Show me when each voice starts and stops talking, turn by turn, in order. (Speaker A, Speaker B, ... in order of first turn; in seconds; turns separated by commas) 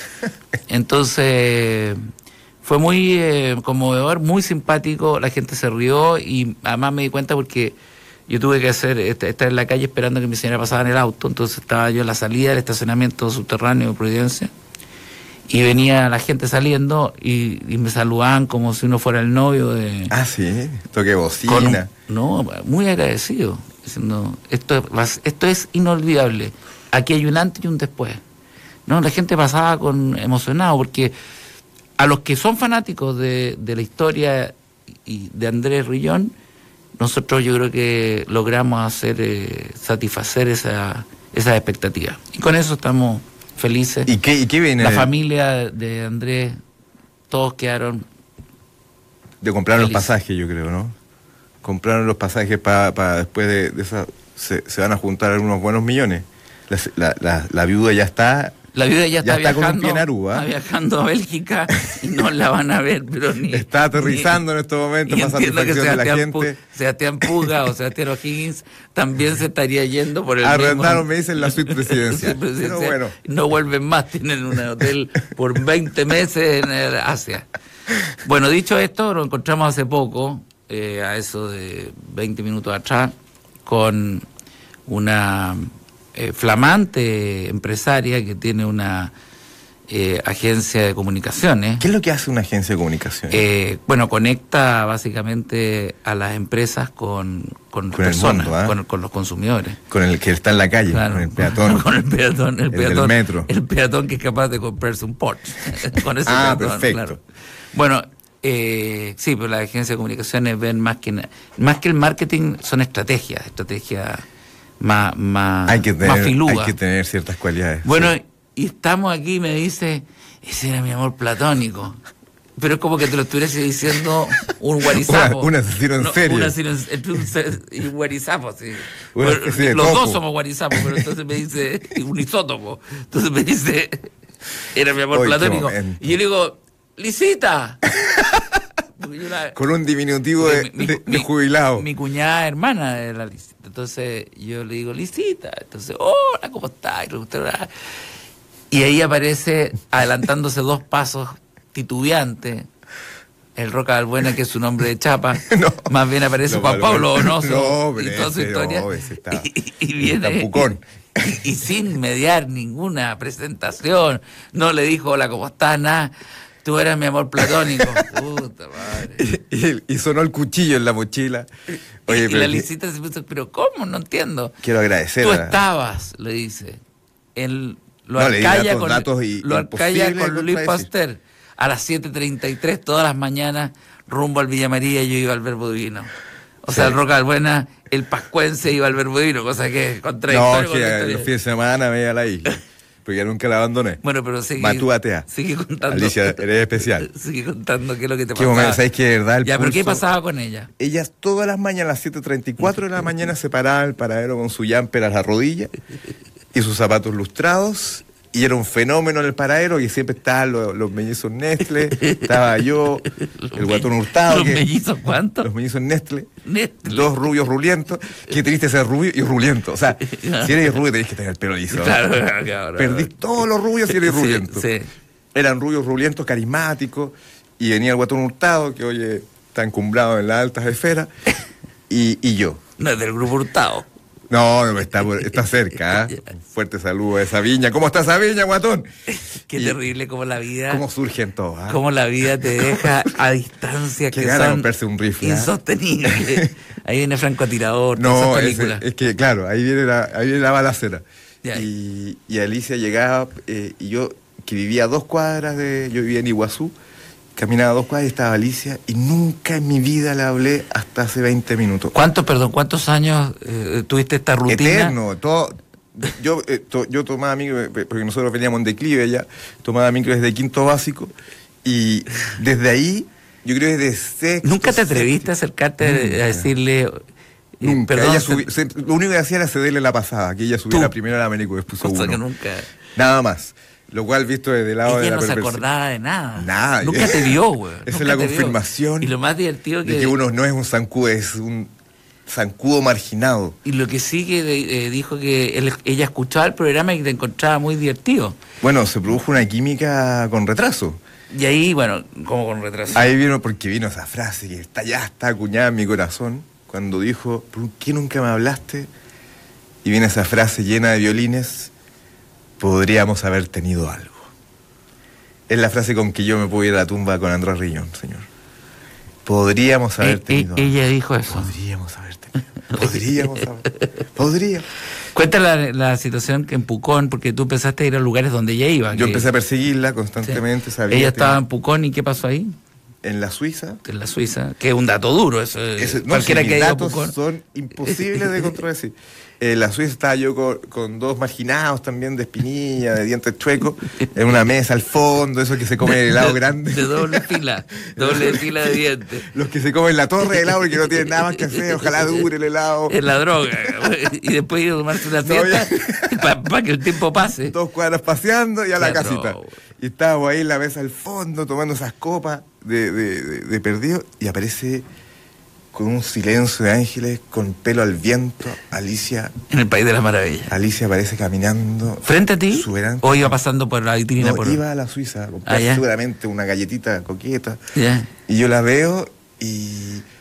Speaker A: 0.7-2.0, Speaker A: 2.6-7.8, Speaker A: 8.3-14.5, Speaker A: 15.5-20.1, Speaker B: 20.1-21.9, Speaker A: 21.5-28.2, Speaker A: 28.9-31.1, Speaker A: 32.0-36.3, Speaker A: 37.0-44.1, Speaker B: 44.0-45.1, Speaker A: 44.8-46.6, Speaker A: 47.3-48.0, Speaker B: 49.4-50.9, Speaker A: 49.8-50.1, Speaker B: 51.6-58.6, Speaker A: 58.7-64.4, Speaker B: 59.2-60.5, Speaker B: 63.5-66.6, Speaker A: 65.0-77.5, Speaker B: 67.2-67.5, Speaker B: 70.4-73.1, Speaker A: 78.2-83.1, Speaker A: 83.7-84.2, Speaker A: 84.9-89.1, Speaker A: 89.9-91.9, Speaker B: 91.8-93.4, Speaker A: 93.3-99.8, Speaker B: 97.9-98.8, Speaker B: 99.9-101.8, Speaker A: 100.9-107.2, Speaker B: 102.7-103.5, Speaker B: 106.2-107.2, Speaker A: 107.7-114.2, Speaker A: 114.8-116.8, Speaker B: 115.7-118.1, Speaker A: 117.8-122.0, Speaker A: 122.6-134.1, Speaker B: 124.8-126.5, Speaker B: 129.1-130.2, Speaker B: 130.7-131.0, Speaker A: 134.7-137.9, Speaker B: 135.1-136.0, Speaker B: 137.9-138.5, Speaker A: 139.0-139.6, Speaker B: 139.5-141.8, Speaker A: 140.4-147.7, Speaker A: 148.7-152.7, Speaker A: 153.6-160.7, Speaker B: 155.4-155.9, Speaker B: 156.4-160.8, Speaker A: 161.2-166.1, Speaker A: 166.6-169.3, Speaker B: 167.8-168.1, Speaker B: 169.2-171.5, Speaker B: 172.1-172.7, Speaker A: 172.1-174.6, Speaker B: 174.6-175.6, Speaker A: 175.2-176.8, Speaker A: 177.3-186.1, Speaker B: 178.2-180.9, Speaker A: 186.6-191.3, Speaker B: 186.7-187.0, Speaker B: 190.3-194.0, Speaker A: 194.0-196.4, Speaker B: 194.6-195.3, Speaker B: 195.9-197.1, Speaker A: 196.9-198.8, Speaker B: 198.3-200.0, Speaker A: 199.4-200.7, Speaker B: 200.8-205.7, Speaker B: 206.5-214.6, Speaker A: 212.0-212.3, Speaker A: 213.4-215.5, Speaker B: 215.4-216.3, Speaker A: 216.4-217.1, Speaker B: 216.8-222.1, Speaker A: 220.1-220.6, Speaker A: 221.7-223.1, Speaker B: 222.8-224.7, Speaker A: 223.9-224.9, Speaker B: 225.3-231.1, Speaker B: 231.9-232.6, Speaker A: 232.8-233.9, Speaker B: 234.3-238.9, Speaker A: 239.1-240.8, Speaker B: 239.5-239.8, Speaker B: 240.7-241.8, Speaker A: 241.7-244.7, Speaker B: 244.1-245.5, Speaker A: 245.2-248.8, Speaker B: 246.1-246.5, Speaker B: 247.9-256.7, Speaker B: 257.4-261.9, Speaker A: 261.9-264.9, Speaker B: 264.5-271.1, Speaker B: 271.6-275.3, Speaker A: 274.4-277.1, Speaker B: 275.8-276.5, Speaker A: 277.6-278.5, Speaker B: 277.6-282.2, Speaker A: 281.8-282.7, Speaker B: 282.9-285.6, Speaker A: 284.8-290.2, Speaker B: 286.4-289.1, Speaker B: 289.8-291.7, Speaker B: 292.3-293.6, Speaker A: 293.6-298.4, Speaker B: 298.6-301.0, Speaker A: 301.3-303.1, Speaker B: 302.9-308.9, Speaker B: 309.8-311.7, Speaker B: 312.6-314.3, Speaker B: 315.5-318.3, Speaker B: 319.2-320.7, Speaker A: 320.0-321.5, Speaker B: 321.3-324.7, Speaker A: 322.7-323.2, Speaker A: 325.1-329.3, Speaker B: 328.9-331.4, Speaker A: 330.2-332.6, Speaker B: 333.0-333.8, Speaker A: 333.8-337.1, Speaker B: 335.8-347.3, Speaker A: 345.8-349.3, Speaker B: 347.9-352.9, Speaker A: 351.4-352.2, Speaker A: 352.9-357.6, Speaker B: 355.1-356.3, Speaker B: 357.5-364.8, Speaker A: 358.8-359.5, Speaker B: 365.7-369.3, Speaker A: 369.5-370.5, Speaker B: 370.5-373.3, Speaker A: 372.0-374.6, Speaker B: 374.2-377.6, Speaker A: 375.4-375.8, Speaker A: 377.7-378.1, Speaker B: 378.3-380.1